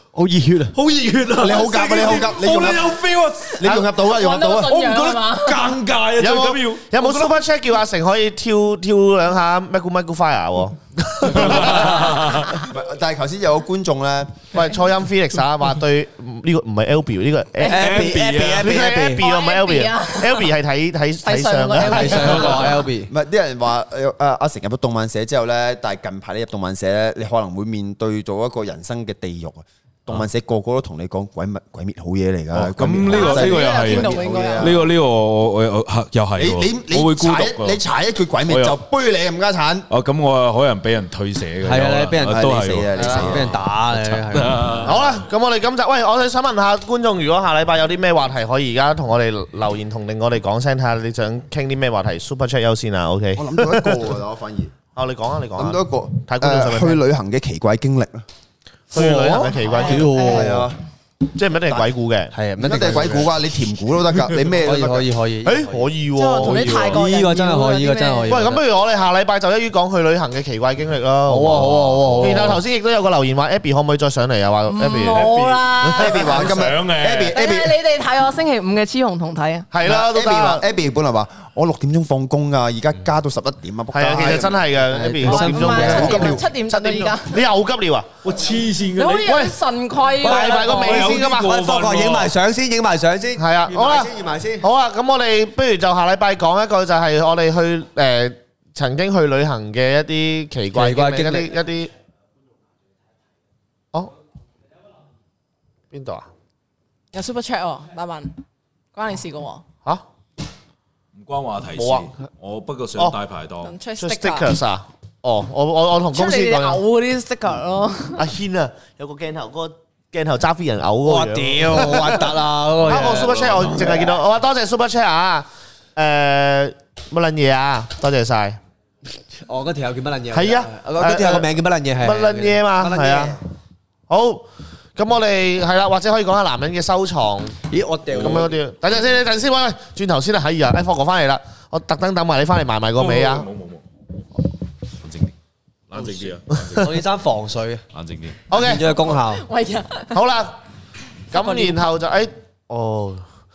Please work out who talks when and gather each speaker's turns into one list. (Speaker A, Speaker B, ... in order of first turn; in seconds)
Speaker A: 0.1-0.7, 17.7-19.3, 21.8-23.1, 41.6-44.9, 58.9-60.7, 62.3-63.4, 64.5-65.9, 66.9-68.6, 71.2-72.6, 84.9-86.4, 90.2-94.7, 100.7-101.5, 121.0-124.2, 129.3-133.4, 137.7-138.6, 145.9-147.8, 148.5-149.4
Speaker B: 0.7-3.8, 4.7-7.3, 11.3-12.6, 17.7-18.7, 32.5-37.8, 38.5-38.8, 39.9-45.0, 66.4-66.8, 75.0-77.3, 88.2-89.3, 90.5-92.3, 111.2-113.8, 122.9-123.7, 142.9-143.8, 145.9-147.0
Speaker C: 1.4-3.0, 3.6-4.8, 12.6-14.4, 23.1-35.0, 36.4-39.9, 42.3-43.6, 53.4-54.7, 55.5-58.2, 60.2-60.8, 62.6-65.1, 75.9-77.8, 79.8-84.6, 85.7-86.4, 145.1-145.3, 147.9-148.4
Speaker D: 3.7-5.7, 19.1-20.5, 21.2-22.7, 33.0-34.8, 59.7-60.6, 66.1-68.4, 74.7-76.5, 77.3-79.7, 85.3-87.3, 88.9-91.1, 107.1-108.3, 108.9-109.6, 113.6-114.5, 116.1-118.2, 149.3-150.2, 151.3-151.8
Speaker E: 6.2-12.0, 14.5-22.7, 44.8-54.1, 54.9-57.0, 58.9-60.4, 61.3-62.3, 65.4-67.0, 68.3-75.2, 79.7-80.6, 83.9-88.1, 89.3-89.5, 90.2-91.5, 93.4-101.9, 105.9-106.3, 111.8-112.1, 114.0-116.8, 118.2-122.2, 122.8-128.6, 130.3-133.4, 134.1-137.5, 138.2-143.5, 148.5-148.9, 150.1-150.6, 151.3-153.3